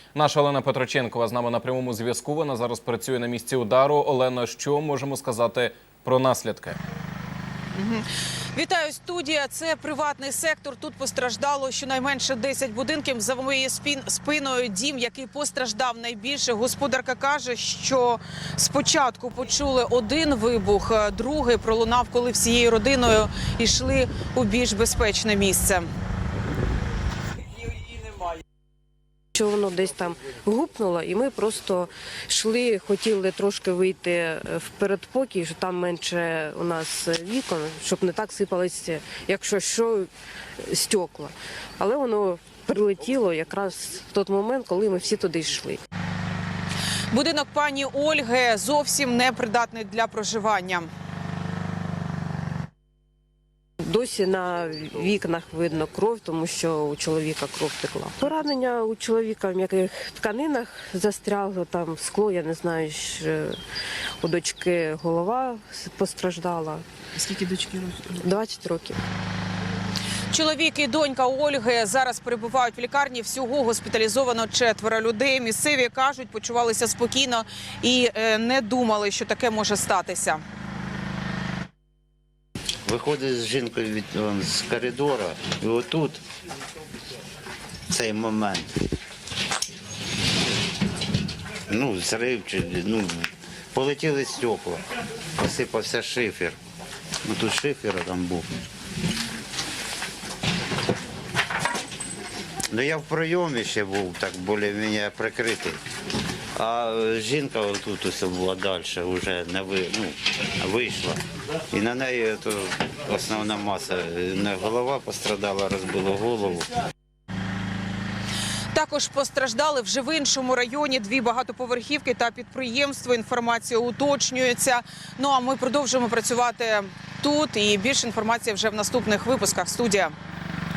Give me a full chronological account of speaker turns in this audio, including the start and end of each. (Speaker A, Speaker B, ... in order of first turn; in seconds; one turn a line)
Speaker A: 0.1-6.8
Speaker B: 7.7-25.9
Speaker C: 29.4-40.1
Speaker C: 40.6-45.8
Speaker B: 47.1-50.9
Speaker C: 53.9-63.6
Speaker C: 64.2-69.0
Speaker B: 70.3-80.4
Speaker D: 82.8-86.2
Speaker D: 87.9-88.7
Speaker D: 91.7-94.8
Speaker D: 95.4-96.6
Speaker D: 97.2-98.5
Speaker D: 102.7-105.8
Speaker D: 106.6-116.7
Speaker B: 118.7-130.2